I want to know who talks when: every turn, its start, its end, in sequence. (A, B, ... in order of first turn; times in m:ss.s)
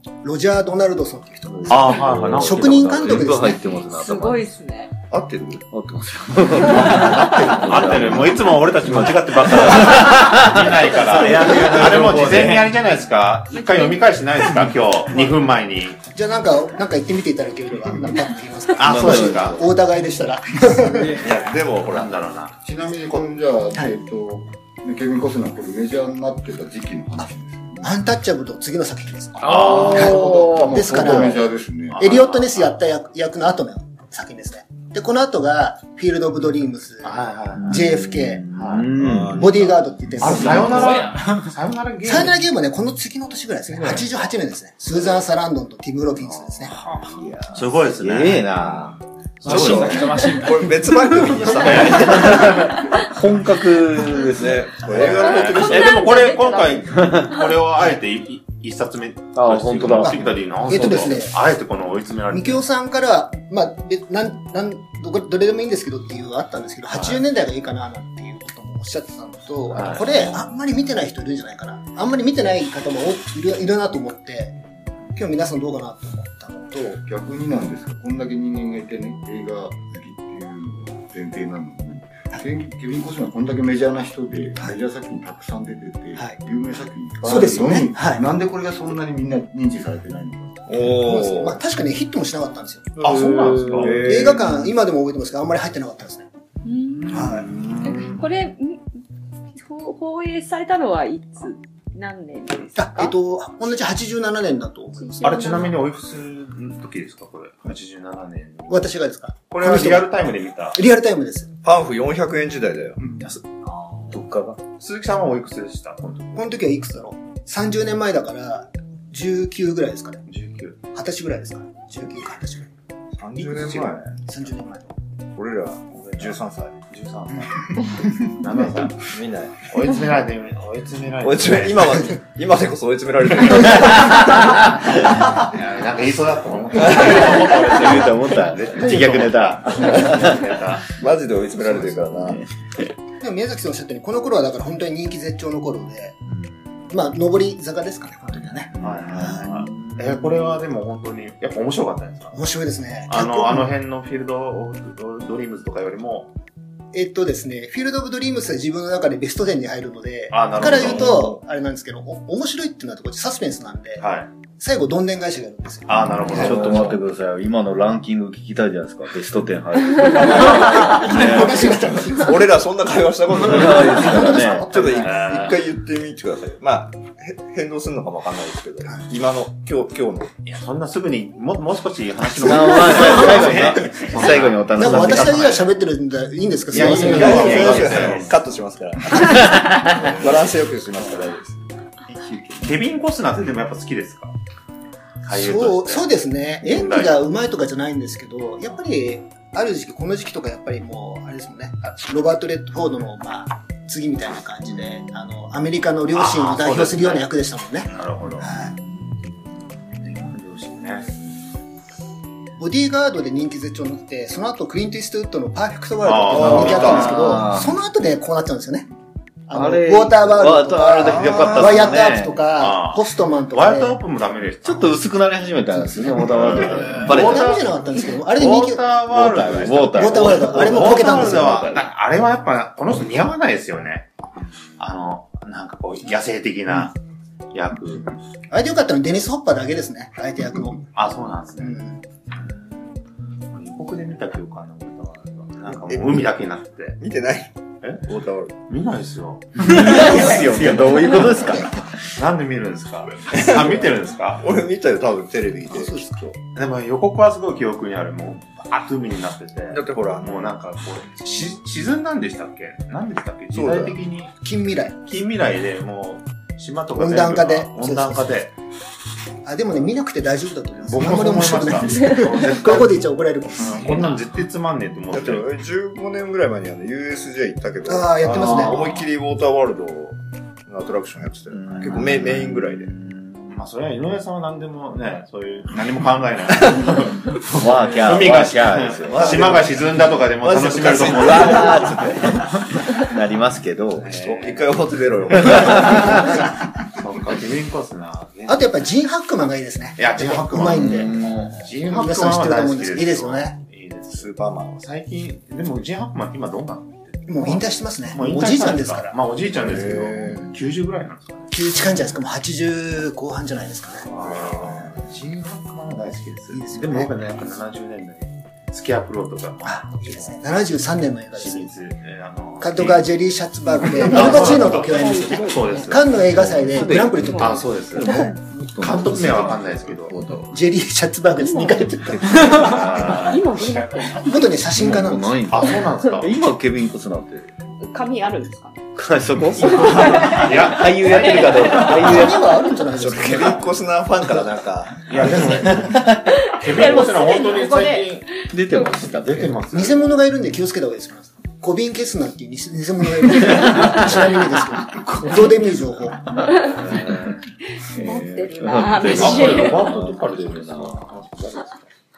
0:00.2-0:03.8 A
0:01.5-0:04.5 B
0:01.7-0:03.2 C
0:03.9-0:04.9 D
0:05.1-0:05.6 E
0:05.7-0:12.7 B
0:06.6-0:16.0 C
0:11.5-0:12.5 E
0:13.5-0:14.1 D
0:16.1-0:21.2 A
0:18.8-0:19.6 C
0:18.8-0:19.7 B
0:21.1-0:22.2 E
0:21.9-0:23.2 C
0:22.6-0:27.9 F
0:27.8-0:31.4 A
0:29.4-0:30.4 C
0:29.4-0:31.2 B
0:29.8-0:32.0 F
0:31.9-0:32.8 C
0:32.0-0:38.4 A
0:37.0-0:37.8 C
0:37.6-0:39.6 B
0:38.5-0:39.0 C
0:39.0-0:41.0 E
0:39.3-0:41.1 A
0:40.2-0:42.4 C
0:40.3-0:41.3 B
0:42.0-0:46.7 A
0:43.7-0:44.1 C
0:46.2-0:48.8 C
0:46.8-0:50.4 B
0:49.4-0:50.7 C
0:49.4-0:52.8 E
0:51.4-0:52.8 C
0:51.6-0:55.0 B
0:54.3-0:56.1 E
0:54.8-1:02.6 C
0:55.1-0:57.5 D
0:56.9-0:57.3 B
0:59.4-1:01.0 B
1:00.0-1:01.3 A
1:02.3-1:14.6 A
1:06.9-1:07.2 C
1:09.7-1:10.4 C
1:15.1-1:17.0 A
1:17.0-1:30.8 F
1:27.2-1:28.2 A
1:30.7-1:31.6 E
1:30.8-1:32.9 A
1:33.0-1:34.0 C
1:33.0-1:34.7 E
1:33.8-1:36.3 A
1:36.6-1:37.2 D
1:37.1-1:37.5 A
1:37.2-1:38.2 B
1:37.8-1:38.8 D
1:39.5-1:43.1 D
1:42.7-1:45.5 A
1:45.0-1:45.8 D
1:45.2-1:48.9 C
1:48.7-1:51.5 A
1:49.5-1:50.8 C
1:51.6-1:53.0 E
1:53.1-1:53.4 C
1:53.7-1:54.6 B
1:54.2-1:56.6 C
1:56.4-2:00.2 A
2:00.3-2:00.8 C
2:00.9-2:02.7 A
2:03.2-2:04.1 E
2:03.4-2:04.0 C
2:04.2-2:04.9 A
2:05.4-2:06.7 E
2:05.9-2:09.1 C
2:09.0-2:09.7 E
2:09.6-2:12.1 C
2:11.2-2:14.6 E
2:15.3-2:20.9 C
2:16.8-2:17.4 E
2:16.9-2:20.5 B
2:21.0-2:22.4 E
2:21.8-2:22.6 B
2:23.2-2:26.2 A
2:26.3-2:26.8 B
2:26.9-2:29.4 A
2:28.6-2:30.4 B
2:28.8-2:32.4 C
2:32.3-2:33.7 A
2:33.1-2:36.3 C
2:36.9-2:44.0 A
2:40.3-2:41.3 C
2:40.8-2:41.3 E
2:44.0-2:44.3 C
2:44.6-2:46.6 A
2:45.9-2:46.9 C
2:46.1-2:51.7 B
2:46.5-2:46.9 E
2:50.3-2:52.4 A
2:51.2-3:00.3 E
2:53.4-2:54.7 B
2:53.7-2:55.2 A
2:55.0-2:55.6 C
3:00.4-3:05.6 C
3:02.3-3:05.6 B
3:02.8-3:03.6 A
3:04.7-3:08.2 A
3:06.7-3:08.4 C
3:06.7-3:11.6 E
3:06.9-3:08.0 B
3:09.2-3:10.1 B
3:12.6-3:14.3 C
3:15.2-3:16.1 C
3:15.3-3:28.7 A
3:16.6-3:17.2 C
3:26.1-3:27.3 C
3:27.9-3:28.5 C
3:30.0-3:31.1 C
3:32.6-3:38.9 A
3:36.0-3:37.2 C
3:36.3-3:37.2 E
3:36.4-3:37.8 B
3:39.5-3:44.0 A
3:39.5-3:42.4 B
3:41.1-3:41.6 E
3:42.6-3:45.0 C
3:44.6-3:47.6 B
3:46.3-3:54.1 C
3:46.6-3:48.8 A
3:49.1-3:51.8 B
3:49.9-3:51.7 A
3:54.8-3:57.0 C
3:57.5-3:58.1 C
3:58.5-4:00.8 A
4:00.9-4:01.8 C
4:01.6-4:02.0 A
4:03.5-4:07.0 C
4:05.7-4:06.2 E
4:07.0-4:07.5 E
4:08.0-4:08.5 E
4:08.7-4:14.4 C
4:09.6-4:11.9 B
4:13.3-4:13.9 E
4:14.4-4:16.4 E
4:15.7-4:16.1 A
4:16.5-4:24.3 C
4:19.7-4:20.6 E
4:23.5-4:24.0 E
4:24.4-4:25.0 A
4:25.0-4:28.5 C
4:27.0-4:28.3 A
4:29.4-4:34.2 A
4:30.8-4:33.0 C
4:33.6-4:35.5 C
4:35.1-4:42.9 E
4:37.8-4:38.8 A
4:41.5-4:43.5 B
4:43.5-4:51.9 C
4:47.5-4:49.6 B
4:49.0-4:52.4 E
4:51.1-4:54.1 B
4:54.0-4:54.7 C
4:54.0-4:56.4 E
4:55.4-4:58.7 C
4:55.5-4:56.3 B
4:58.5-5:01.2 A
5:00.0-5:11.5 C
5:00.7-5:01.6 B
5:01.9-5:03.6 A
5:04.1-5:04.8 E
5:07.3-5:09.2 A
5:09.6-5:10.5 E
5:11.5-5:14.1 A
5:14.0-5:20.4 C
5:14.2-5:15.0 E
5:16.5-5:17.2 A
5:19.6-5:21.7 A
5:21.4-5:23.1 C
5:22.6-5:28.3 A
5:24.0-5:26.6 C
5:24.1-5:25.9 D
5:26.4-5:27.3 B
5:26.7-5:27.6 D
5:27.4-5:28.2 C
5:27.9-5:30.5 B
5:28.8-5:30.1 C
5:30.5-5:32.8 A
5:31.4-5:34.4 D
5:32.3-5:33.3 B
5:32.5-5:33.4 C
5:34.2-5:35.4 A
5:34.8-5:37.5 B
5:35.5-5:36.3 C
5:37.8-5:38.8 D
5:38.9-5:42.6 B
5:39.6-5:42.1 D
5:39.7-5:41.9 C
5:41.9-5:43.7 A
5:43.0-5:45.7 E
5:45.1-5:48.3 C
5:45.6-5:46.3 B
5:46.4-5:49.1 D
5:48.5-5:49.6 B
5:49.2-5:50.1 C
5:49.7-5:56.4 A
5:53.6-5:54.2 B
5:55.0-5:55.3 B
5:56.4-5:57.4 B
5:56.5-5:57.0 D
5:57.9-5:59.8 D
5:57.9-6:01.2 B
5:58.9-6:01.8 C